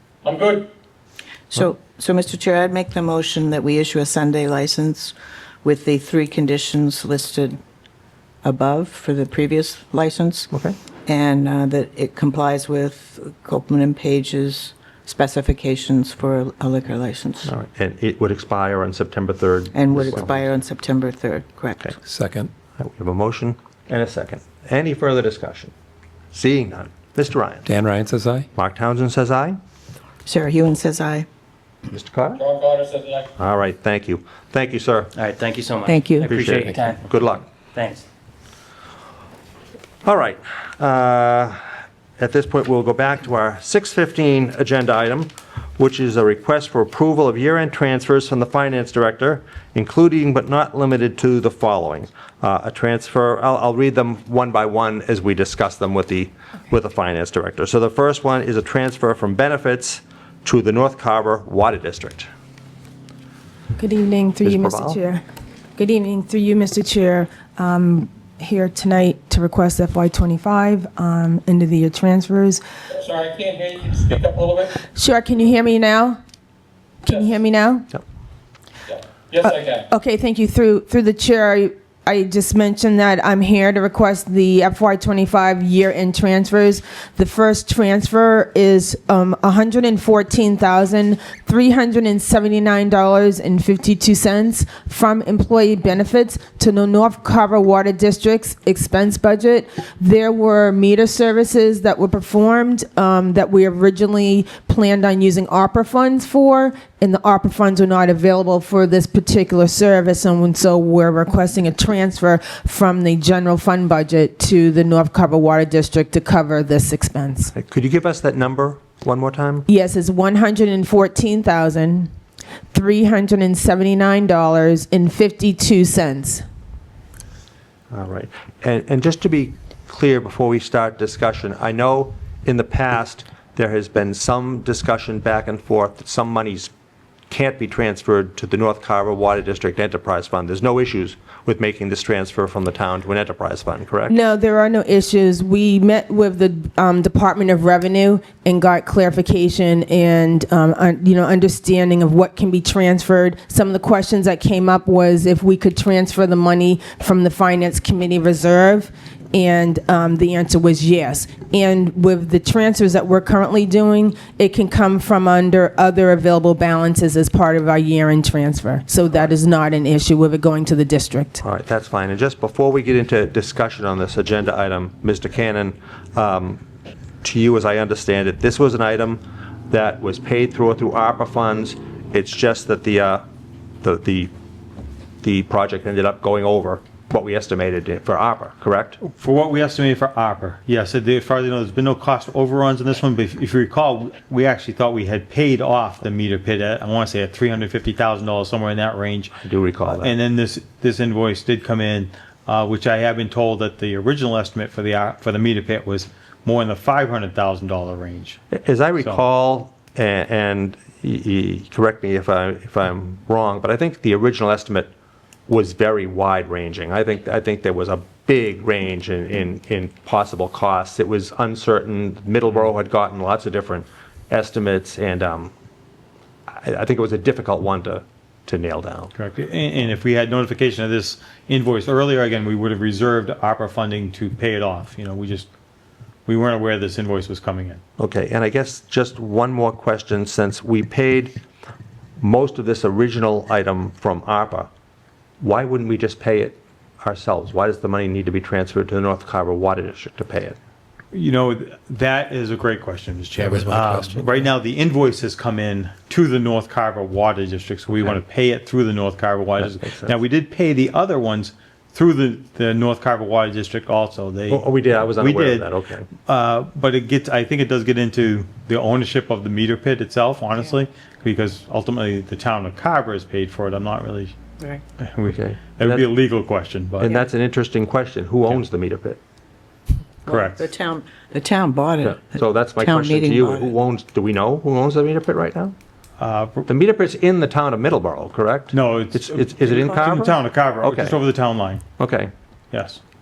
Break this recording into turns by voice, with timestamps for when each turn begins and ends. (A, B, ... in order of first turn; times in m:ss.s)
0:00.3-0:00.6 A
0:01.5-0:07.6 B
0:08.4-0:10.5 B
0:10.5-0:10.8 C
0:11.1-0:17.5 B
0:17.4-0:20.4 C
0:19.7-0:22.0 B
0:22.1-0:22.5 D
0:22.8-0:25.7 C
0:26.3-0:27.7 C
0:27.7-0:28.5 D
0:28.5-0:29.6 C
0:30.3-0:31.3 B
0:31.9-0:32.4 C
0:32.4-0:33.2 A
0:33.4-0:35.1 C
0:35.2-0:37.0 E
0:35.9-0:36.2 B
0:36.2-0:37.5 C
0:37.7-0:38.0 E
0:40.0-0:41.6 C
0:42.2-1:02.3 C
1:03.8-1:05.2 F
1:04.4-1:05.0 C
1:05.8-1:12.6 F
1:13.0-1:14.7 A
1:14.8-1:16.2 F
1:17.0-1:17.9 F
1:19.3-1:19.7 A
1:19.4-1:57.5 F
1:57.5-1:59.7 C
1:59.7-2:02.1 F
2:02.7-2:06.4 F
2:07.9-2:16.7 C
2:17.3-2:24.2 C
2:24.1-2:51.4 F
2:51.4-2:56.6 C
2:57.2-3:03.2 C
3:03.8-3:04.3 C
3:05.2-3:09.0 C
3:09.0-3:19.3 G
3:19.4-3:20.1 C
3:19.9-3:28.4 G
3:28.5-3:34.9 C
3:35.5-3:45.5 C
3:46.5-3:49.1 C
3:49.1-3:55.5 G
3:56.3-3:57.8 G
3:58.0-4:01.4 C
4:02.2-4:04.7 C
4:05.4-4:10.6 C
4:11.1-4:25.7 G
4:13.4-4:14.2 D
4:19.8-4:20.2 C
4:24.5-4:26.1 C
4:26.2-4:34.3 G
4:35.0-4:37.1 G
4:35.3-4:36.1 C
4:37.0-4:39.2 C
4:40.3-4:43.7 B
4:40.3-4:40.6 G
4:42.0-4:45.8 C
4:46.2-4:46.7 G
4:46.7-4:51.2 C
4:48.7-4:51.8 G
4:52.0-4:52.3 C
4:52.7-4:53.0 G